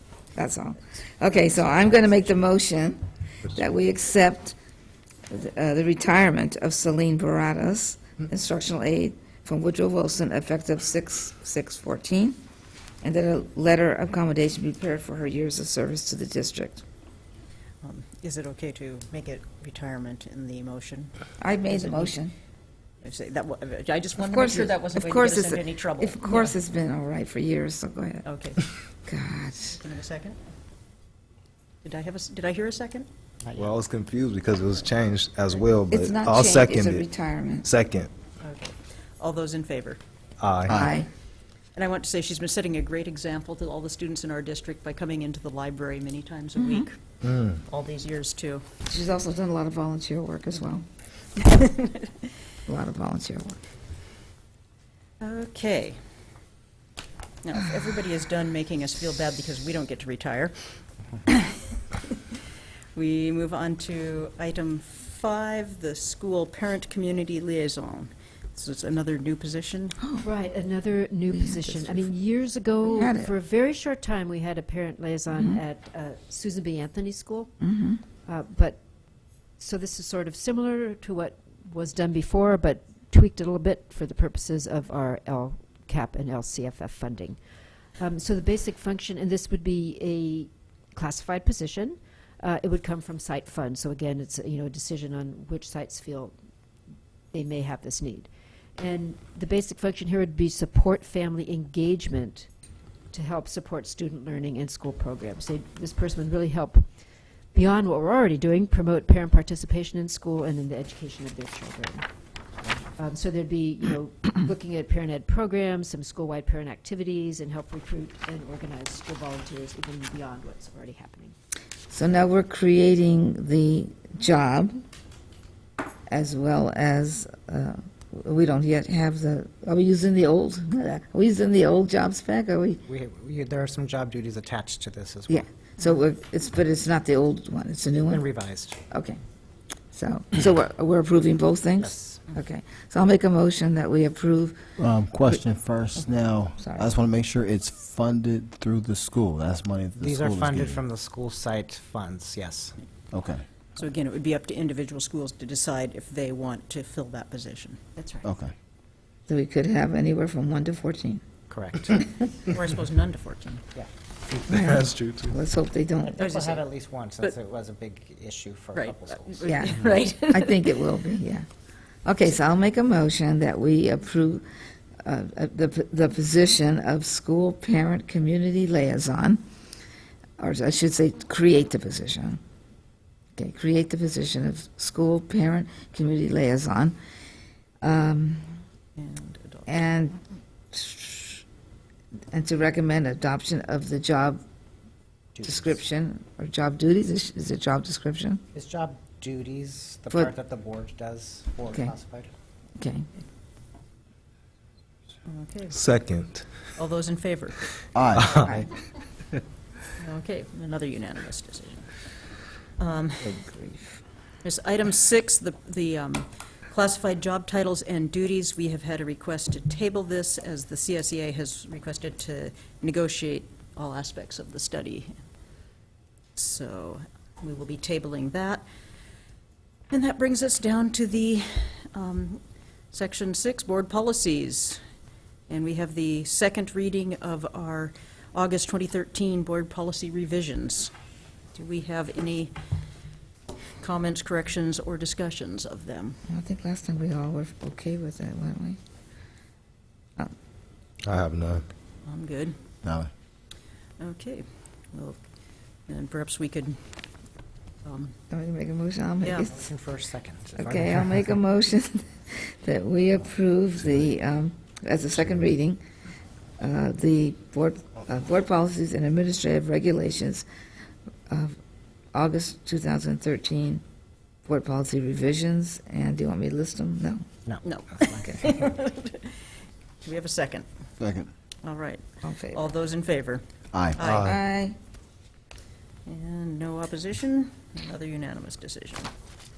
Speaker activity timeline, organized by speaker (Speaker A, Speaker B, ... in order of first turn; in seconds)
Speaker A: 0.3-4.5, 5.3-12.4, 13.0-16.8, 21.4-22.3, 24.3-28.2, 29.1-29.8, 35.9-37.6, 40.7-41.1, 46.6-46.9, 48.9-50.8, 52.6-53.6, 70.0-70.3, 71.3-71.8, 72.8-73.3, 77.6-78.0, 121.9-124.8, 126.1-132.8, 135.3-138.2, 138.9-139.2, 139.9-144.6, 146.6-146.9, 159.3-161.2, 164.5-166.2, 169.4-171.4, 172.0-174.4, 175.0-179.4, 180.4-182.4, 183.3-186.9, 187.8-188.6, 189.7-191.4, 192.3-194.4, 195.4-198.4, 202.8-203.1, 213.2-213.9, 246.3-248.8, 258.3-259.5, 260.6-265.8, 266.6-270.4, 271.3-271.6, 272.1-273.8, 274.4-277.2, 282.2-282.6, 284.2-284.8
Speaker B: 17.8-21.1, 21.7-22.1, 23.0-26.6, 28.2-28.6, 29.7-30.4, 31.8-33.1, 38.4-40.0, 41.7-47.0, 47.6-48.6, 51.4-52.0, 55.2-56.0, 57.4-62.4, 62.9-70.0, 153.8-157.8, 162.4-163.6, 166.2-166.7, 168.7-171.0, 189.0-189.7, 205.3-205.8, 206.8-207.8, 210.0-212.1, 212.8-213.5, 214.4-225.2, 226.3-228.6, 229.9-234.8, 235.5-240.9, 241.5-242.6, 243.8-246.2, 252.0-252.6, 254.0-255.2, 255.9-257.0, 257.8-258.1, 259.2-259.5, 277.6-280.6, 281.6-284.3, 286.1-289.1
Speaker C: 33.5-37.0, 37.6-38.1, 40.4-40.8, 47.3-47.5, 164.3-165.3, 205.7-206.4, 251.0-251.6, 284.0-284.3
Speaker D: 70.2-78.8, 79.6-87.4, 88.0-96.3, 97.3-102.5, 103.1-106.9, 107.5-112.1, 113.0-121.3, 157.9-158.2
Speaker E: 132.8-135.4, 138.1-138.8, 141.8-142.2, 150.0-152.8, 161.5-162.1, 166.1-170.0, 195.3-195.8, 198.5-202.3, 259.4-261.3, 277.4-278.4
Speaker F: 144.8-150.8, 153.1-153.4, 158.2-158.5, 207.9-208.7, 252.8-253.1, 281.0-281.3, 283.7-284.0